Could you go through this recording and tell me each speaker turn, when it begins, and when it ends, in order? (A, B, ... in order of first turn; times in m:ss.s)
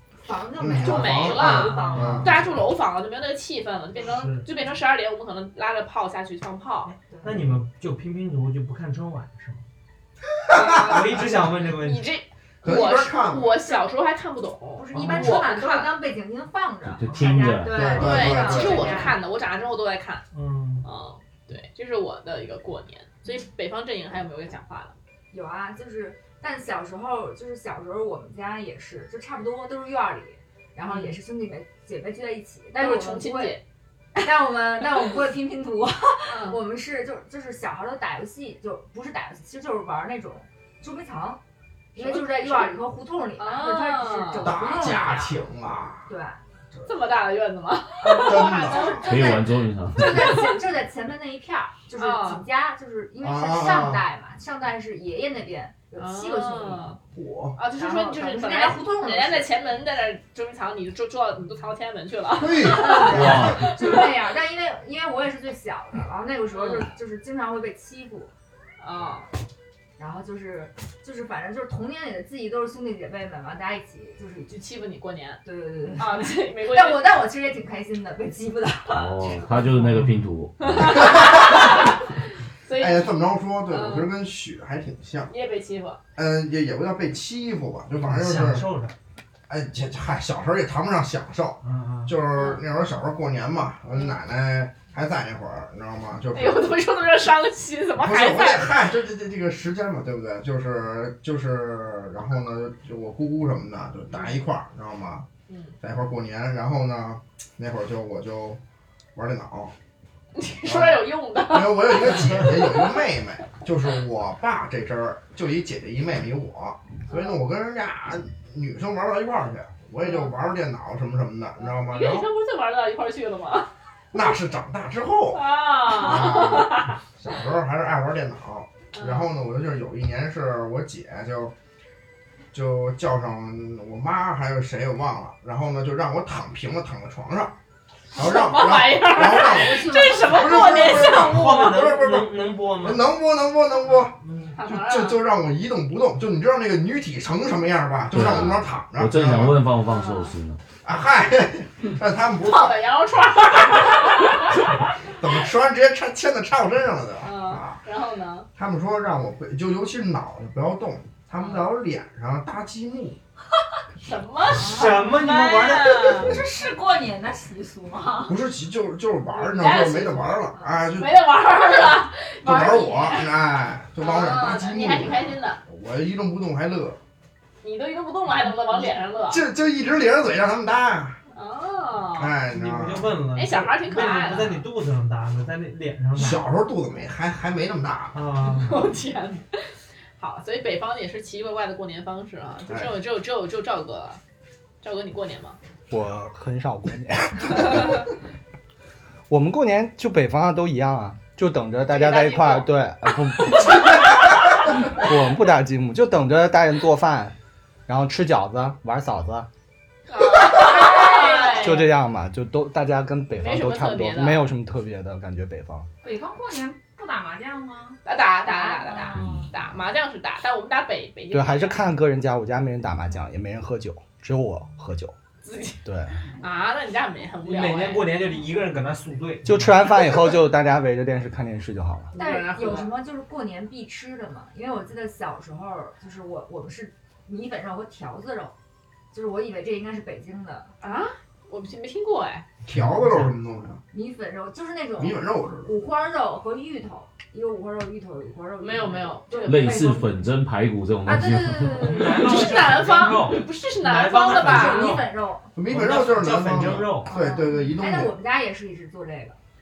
0:00.2-0:02.4 A
0:00.6-0:02.3 B
0:00.8-0:06.9 C
0:01.5-0:02.6 D
0:04.0-0:04.5 D
0:06.8-0:09.6 D
0:07.1-0:07.6 A
0:10.4-0:11.1 B
0:10.5-0:11.2 C
0:10.8-0:12.0 D
0:11.8-0:16.0 C
0:12.6-0:13.6 B
0:14.8-0:19.2 A
0:14.9-0:15.5 D
0:16.9-0:18.0 E
0:17.7-0:19.2 B
0:17.9-0:20.2 C
0:20.3-0:20.9 D
0:20.8-0:24.9 C
0:25.3-0:33.6 A
0:30.9-0:31.2 C
0:32.7-0:33.6 C
0:34.2-0:41.4 A
0:36.3-0:36.6 C
0:41.9-0:45.3 A
0:42.0-0:42.7 C
0:43.4-0:45.3 C
0:44.4-0:46.1 B
0:46.1-0:46.4 A
0:46.9-0:49.4 C
0:48.0-0:49.1 B
0:48.0-0:57.0 A
0:49.0-0:50.4 E
0:50.0-0:50.5 C
0:52.0-0:52.4 C
0:53.2-0:54.1 B
0:56.0-0:57.0 C
0:57.1-0:57.6 B
0:57.6-1:04.2 C
0:57.8-0:59.5 A
1:02.4-1:03.6 B
1:02.6-1:08.3 A
1:03.1-1:03.7 E
1:06.5-1:06.9 C
1:08.8-1:09.3 C
1:09.0-1:09.3 A
1:10.0-1:14.5 A
1:14.5-1:15.4 C
1:15.4-1:19.6 A
1:16.0-1:17.3 C
1:18.9-1:21.1 E
1:20.6-1:22.0 C
1:22.6-1:23.1 C
1:22.8-1:25.3 B
1:23.7-1:24.1 C
1:25.3-1:26.0 C
1:26.2-1:28.7 B
1:28.0-1:29.0 D
1:29.5-1:36.8 B
1:31.6-1:32.2 D
1:32.4-1:32.6 C
1:36.3-1:38.8 C
1:38.0-1:45.3 B
1:45.5-1:45.8 C
1:45.8-1:48.6 B
1:49.2-1:49.7 B
1:50.4-1:53.0 C
1:50.6-2:02.3 B
1:57.1-1:57.4 C
2:00.0-2:00.3 C
2:01.6-2:04.3 C
2:04.1-2:11.5 B
2:05.3-2:07.0 C
2:08.9-2:09.3 C
2:12.5-2:17.5 B
2:18.1-2:21.8 C
2:18.1-2:29.6 B
2:19.2-2:20.8 A
2:21.0-2:23.1 D
2:24.1-2:24.6 D
2:24.6-2:25.2 C
2:28.1-2:30.6 E
2:29.9-2:30.3 C
2:30.8-2:32.8 B
2:32.4-2:34.7 C
2:35.2-2:37.8 B
2:37.2-2:38.5 C
2:38.6-2:43.2 B
2:41.4-2:41.6 C
2:44.0-2:46.3 C
2:44.6-2:46.1 D
2:46.1-2:48.4 F
2:48.2-2:51.2 B
2:49.3-2:53.4 C
2:50.5-2:50.8 A
2:52.4-2:57.0 B
2:54.0-2:55.6 C
2:57.6-2:59.4 C
2:59.3-3:01.2 B
3:01.3-3:02.4 C
3:02.2-3:03.2 B
3:02.5-3:06.5 D
3:03.4-3:04.6 C
3:06.2-3:08.2 B
3:08.1-3:08.9 D
3:08.4-3:09.6 C
3:10.2-3:14.2 C
3:14.8-3:15.6 C
3:15.9-3:18.0 G
3:19.3-3:24.1 G
3:21.9-3:22.7 C
3:24.9-3:27.4 G
3:27.9-3:29.5 G
3:30.1-3:31.9 C
3:30.7-3:31.6 A
3:31.6-3:35.9 G
3:33.4-3:34.4 C
3:36.0-3:38.0 F
3:38.0-3:41.8 C
3:38.6-3:39.1 A
3:38.6-3:39.5 F
3:39.2-3:39.5 E
3:41.3-3:45.2 G
3:45.4-3:45.8 C
3:45.8-3:46.2 G
3:46.4-3:48.1 C
3:47.4-3:50.0 D
3:49.4-3:52.1 G
3:52.1-3:52.9 C
3:52.2-3:58.5 A
3:59.1-4:00.7 A
4:00.8-4:02.5 C
4:02.7-4:03.8 B
4:02.7-4:03.3 D
4:03.9-4:10.1 A
4:05.0-4:05.8 B
4:08.6-4:10.1 C
4:09.4-4:12.0 E
4:11.0-4:12.7 A
4:11.7-4:15.1 D
4:12.1-4:15.0 C
4:14.3-4:15.5 A
4:15.6-4:18.2 B
4:15.7-4:17.2 D
4:17.1-4:19.4 A